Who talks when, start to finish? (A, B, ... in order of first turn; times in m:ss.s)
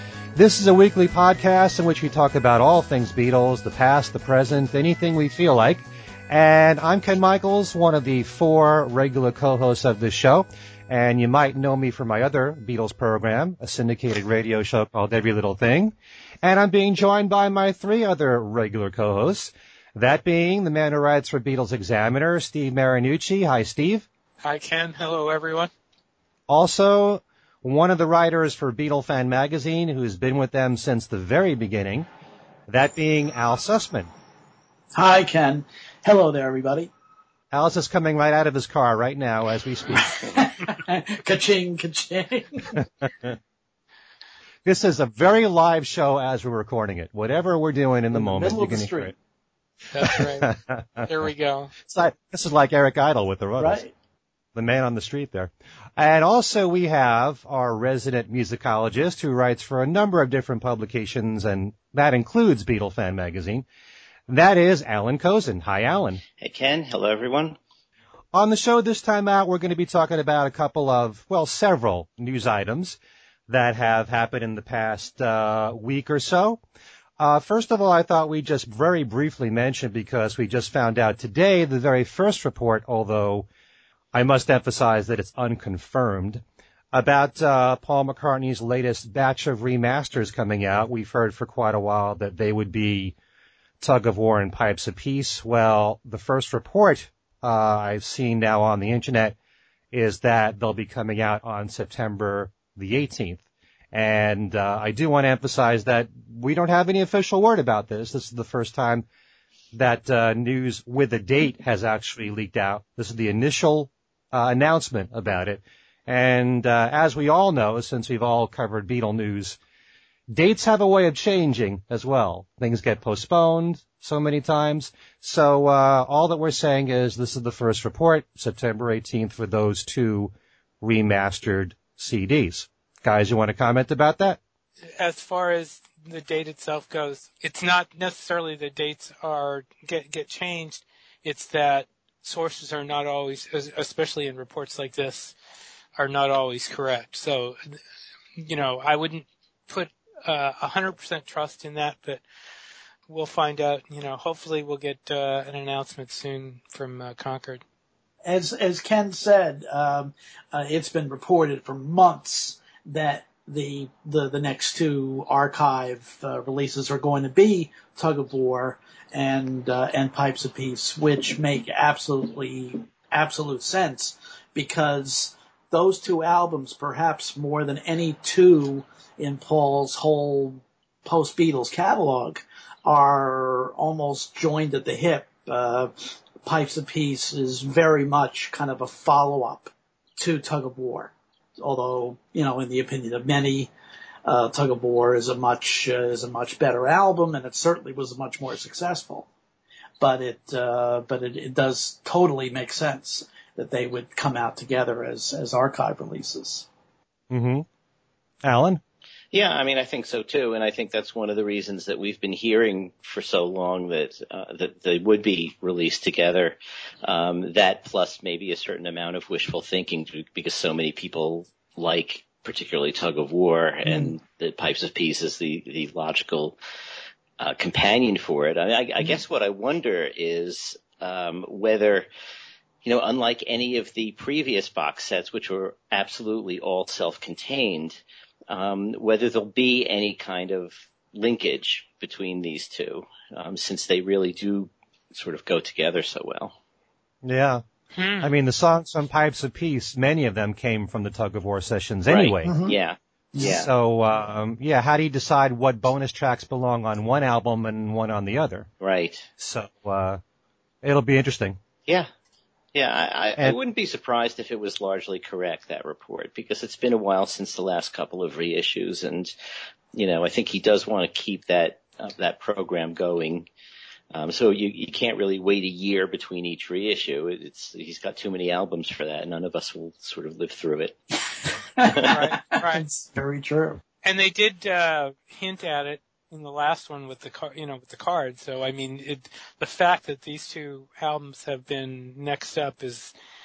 0:00.4-0:24.1 A
0:24.4-0:25.7 B
0:26.5-0:32.1 A
0:32.7-0:34.1 A
0:35.0-0:36.9 C
0:37.5-0:40.2 A
0:39.9-0:42.8 C
0:42.7-0:43.4 A
0:44.6-0:49.1 A
0:48.1-0:49.2 C
0:49.9-0:50.5 B
0:50.0-0:51.1 A
0:51.0-0:51.7 B
0:51.8-0:53.8 A
0:53.6-0:53.9 C
0:54.6-1:03.6 A
1:04.3-1:06.2 A
1:06.4-1:07.6 D
1:08.3-1:16.6 A
1:17.2-1:23.5 A
1:24.1-1:26.4 A
1:26.9-1:33.2 A
1:33.8-1:39.4 A
1:39.9-1:49.1 A
1:49.7-1:59.6 A
2:00.3-2:14.4 A
2:14.9-2:25.4 B
2:26.0-2:27.8 B
2:28.4-2:32.2 B
2:33.1-2:37.6 B
2:38.2-3:13.7 C
3:14.2-3:19.3 C
3:20.0-3:26.7 C
3:27.3-3:27.7 A
3:28.4-3:28.8 A
3:29.3-3:46.6 D
3:43.8-3:44.2 C
3:47.4-3:52.1 D
3:52.8-4:06.6 D
4:07.2-4:07.6 A
4:08.0-4:08.3 B
4:08.2-4:12.6 A
4:12.1-4:13.7 D
4:12.4-4:12.8 C
4:13.4-4:18.7 A
4:18.8-4:19.3 D
4:19.4-4:20.2 A
4:20.8-4:21.6 A
4:22.8-4:29.3 D
4:29.9-4:33.5 D
4:34.1-4:41.0 D
4:41.8-4:43.8 C
4:41.8-4:42.2 D
4:42.1-4:42.9 B
4:44.0-4:53.1 B